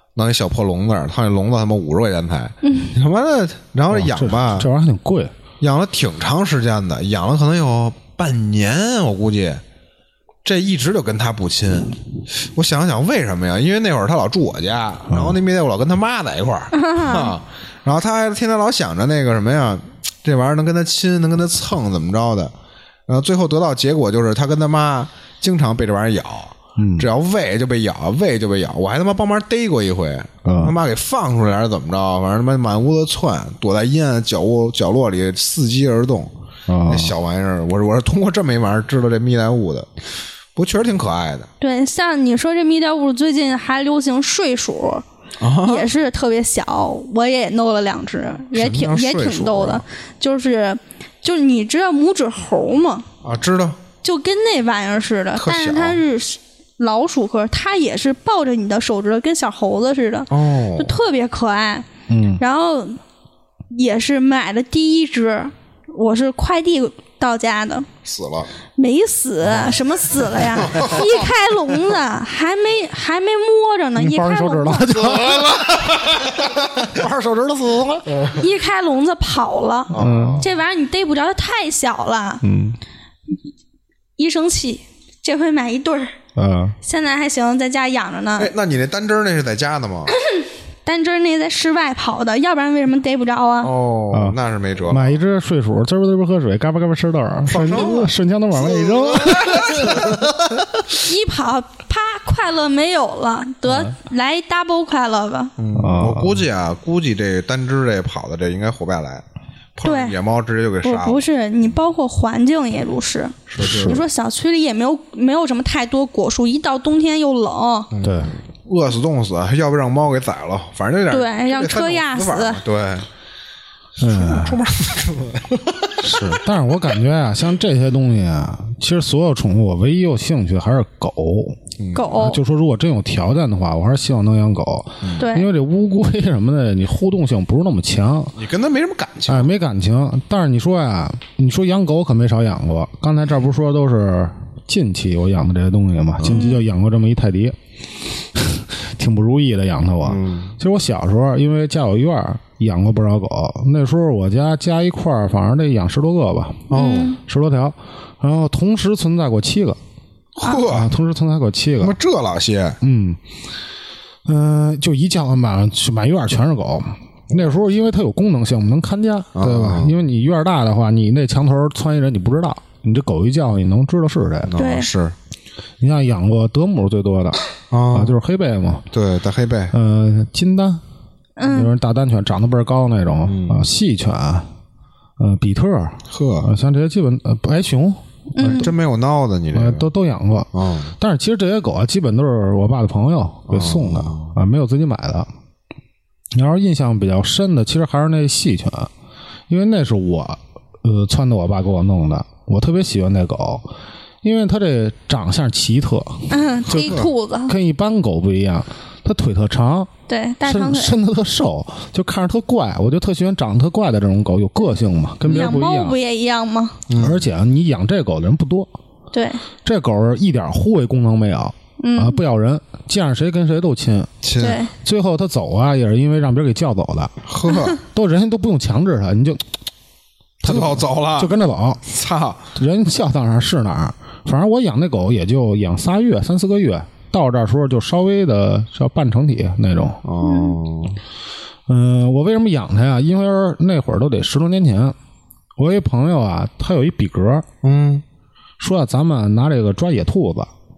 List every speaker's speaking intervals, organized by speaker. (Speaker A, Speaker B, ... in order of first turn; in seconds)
Speaker A: 0.1-4.7, 5.6-9.6, 10.4-22.5, 23.1-36.3, 36.9-39.9, 40.5-41.5, 45.4-45.9, 48.5-49.8, 53.2-53.8, 55.4-56.0, 60.3-61.0, 68.0-68.5, 70.5-71.1, 75.0-76.3, 79.9-80.5, 88.4-90.1, 93.6-95.2, 97.5-100.2, 105.6-109.2, 109.8-111.2, 113.5-114.0, 117.9-123.0, 124.0-126.3, 131.8-132.2, 138.4-139.5, 146.2-146.4, 150.0-150.5, 156.7-157.2, 160.3-160.9, 161.8-162.8, 169.3-169.9, 174.4-175.1, 177.7-178.2, 178.9-179.7, 183.2-183.7, 186.1-186.5, 188.4-189.8, 190.5-190.9, 193.5-194.3, 216.9-217.2, 224.2-224.6, 227.2-227.8, 230.4-231.3, 231.9-232.4, 240.0-241.0, 247.6-248.0
Speaker B: 2.6-2.9, 16.7-17.3, 41.6-45.0, 45.6-53.1, 54.0-61.9, 62.4-63.0, 63.7-67.9, 68.8-75.0, 78.3-82.4, 84.2-86.1, 86.8-88.5, 90.3-93.7, 101.0-105.5, 109.8-110.1, 110.8-117.9, 121.1-122.6, 131.9-132.4, 135.2-135.5, 146.2-146.6, 156.7-157.2, 174.6-174.9, 181.4-181.7, 188.3-188.7, 206.3-207.5, 210.1-210.9, 215.2-216.8, 219.1-219.4, 221.8-222.2, 224.4-224.7, 240.2-240.6
Speaker C: 3.9-5.3, 15.1-15.4, 26.8-27.1, 30.4-30.8, 36.7-37.1, 62.1-62.4, 74.0-78.1, 79.9-80.4, 82.4-82.8, 86.3-86.8, 94.1-94.4, 94.9-100.4, 105.7-106.4, 113.6-114.0, 118.0-118.3, 124.0-124.6, 126.0-131.6, 132.1-138.4, 139.3-147.6, 148.3-159.8, 160.5-161.9, 162.8-163.2, 164.2-174.5, 175.8-177.4, 177.9-178.8, 179.7-180.8, 181.5-184.5, 185.2-188.6, 189.5-195.3, 196.3-198.9, 199.5-203.7, 204.2-209.9, 210.4-216.0, 217.0-218.7, 219.6-224.1, 224.8-227.1, 227.8-229.4, 230.4-231.8, 232.5-240.0, 241.7-244.9, 245.6-247.4, 248.6-250.5